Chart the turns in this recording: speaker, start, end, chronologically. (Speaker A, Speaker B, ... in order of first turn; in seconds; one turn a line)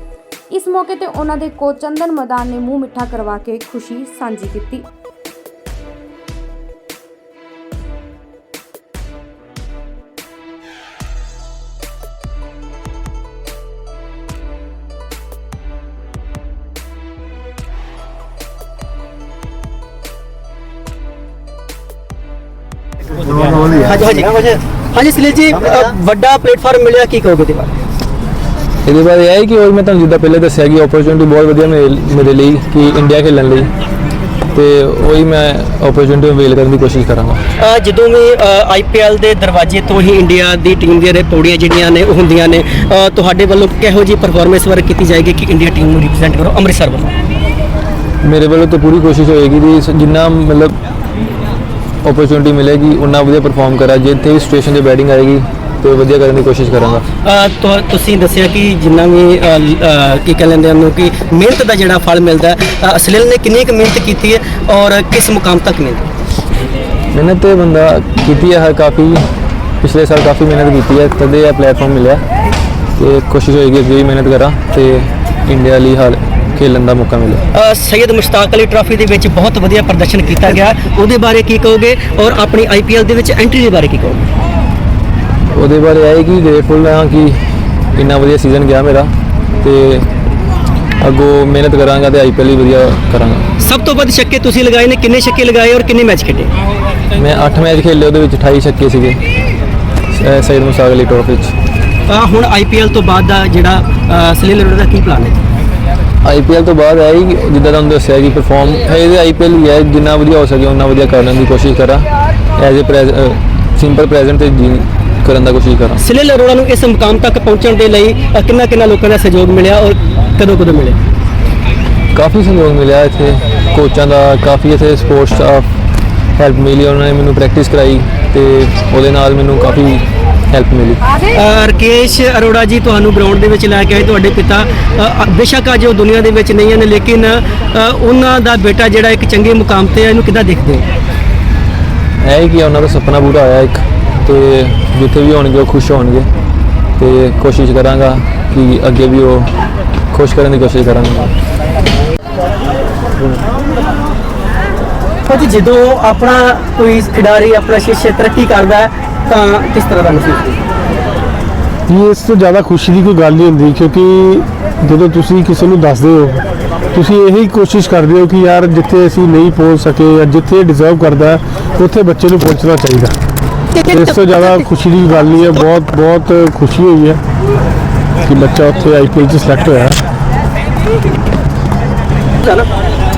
Speaker A: 0.5-4.9
Speaker B: 23.8-27.7
Speaker C: 28.8-33.7
Speaker C: 34.5-37.4
Speaker B: 37.6-47.1
Speaker C: 48.2-50.8
Speaker C: 52.0-57.0
Speaker B: 57.2-66.0
Speaker C: 67.1-69.2
Speaker C: 69.8-72.2
Speaker C: 73.0-77.4
Speaker B: 77.5-84.2
Speaker C: 85.5-87.4
Speaker C: 87.9-90.1
Speaker C: 91.0-93.5
Speaker B: 93.6-96.5
Speaker C: 97.1-99.2
Speaker C: 100.1-101.5
Speaker B: 102.1-105.4
Speaker C: 106.2-116.0
Speaker B: 116.0-121.0
Speaker C: 122.1-125.7
Speaker C: 126.3-131.0
Speaker B: 131.3-140.9
Speaker C: 142.2-146.3
Speaker C: 147.0-149.5
Speaker C: 150.1-151.3
Speaker B: 155.2-160.6
Speaker D: 161.9-173.1
Speaker B: 173.7-174.6
Speaker D: 173.9-177.2
Speaker D: 178.2-180.0
Speaker B: 182.4-182.7